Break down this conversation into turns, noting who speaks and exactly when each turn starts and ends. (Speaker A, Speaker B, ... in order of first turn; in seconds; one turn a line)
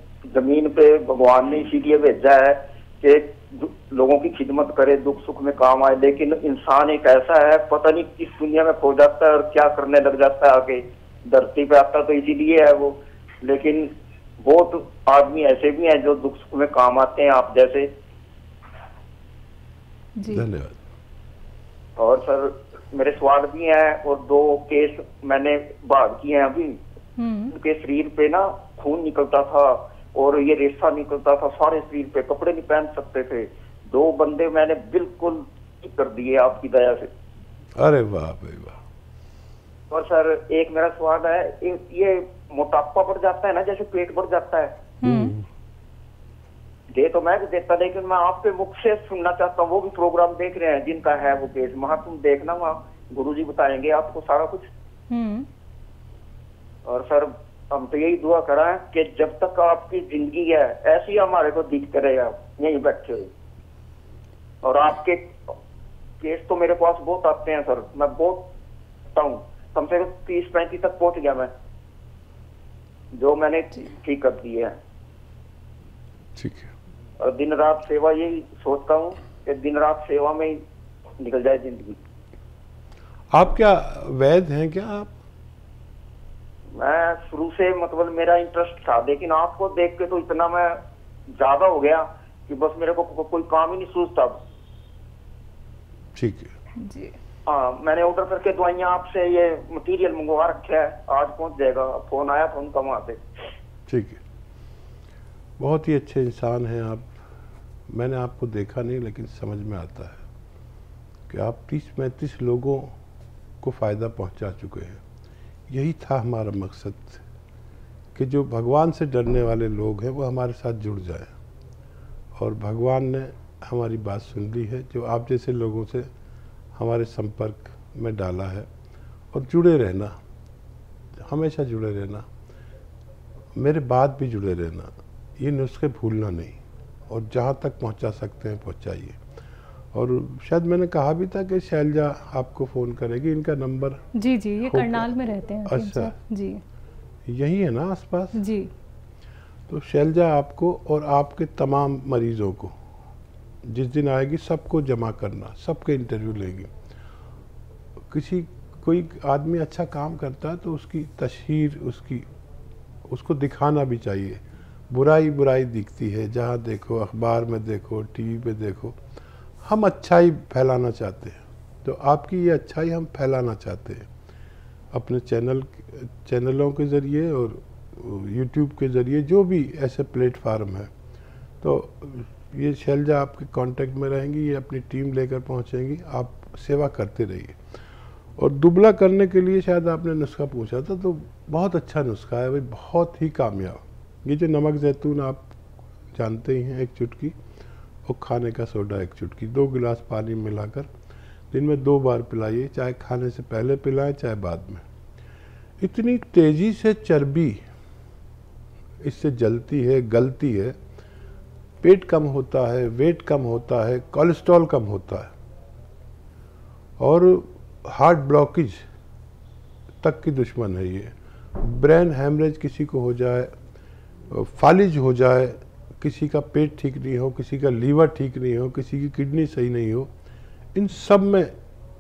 Speaker A: 0.2-13.9
Speaker A: 14.4-17.9
Speaker B: 20.2-20.4
Speaker C: 20.3-20.8
Speaker A: 22.0-26.8
Speaker B: 27.2-27.5
Speaker A: 27.5-37.1
Speaker C: 37.8-38.8
Speaker A: 39.9-44.7
Speaker B: 45.0-45.3
Speaker C: 45.0-45.4
Speaker A: 46.9-54.7
Speaker B: 55.1-55.5
Speaker A: 56.9-63.3
Speaker A: 64.6-65.5
Speaker A: 66.2-68.5
Speaker A: 69.1-71.5
Speaker A: 73.1-74.7
Speaker C: 76.3-76.7
Speaker A: 77.2-80.6
Speaker A: 81.2-82.0
Speaker C: 83.3-85.1
Speaker A: 86.8-90.8
Speaker A: 91.4-94.3
Speaker C: 96.1-96.5
Speaker B: 96.8-97.1
Speaker A: 97.5-103.2
Speaker C: 103.9-104.2
Speaker C: 105.6-107.1
Speaker C: 107.9-110.2
Speaker C: 111.3-112.9
Speaker C: 113.6-115.0
Speaker C: 115.7-117.2
Speaker C: 118.1-121.3
Speaker C: 122.3-126.1
Speaker C: 126.8-128.7
Speaker C: 129.3-130.2
Speaker C: 131.2-132.2
Speaker C: 133.6-139.2
Speaker C: 139.9-144.0
Speaker B: 144.1-146.6
Speaker C: 144.6-146.1
Speaker C: 147.2-148.3
Speaker B: 148.3-148.7
Speaker C: 149.7-152.7
Speaker C: 153.6-156.7
Speaker C: 158.1-162.2
Speaker C: 163.1-168.9
Speaker C: 169.6-174.1
Speaker C: 174.9-180.9
Speaker C: 181.6-187.6
Speaker C: 188.4-195.4
Speaker C: 196.1-197.3
Speaker C: 198.0-200.9
Speaker C: 201.5-204.8
Speaker C: 205.8-207.6
Speaker C: 209.0-210.8
Speaker C: 211.8-215.3
Speaker C: 217.0-218.8
Speaker C: 220.0-223.5
Speaker C: 224.3-230.1
Speaker C: 230.7-231.5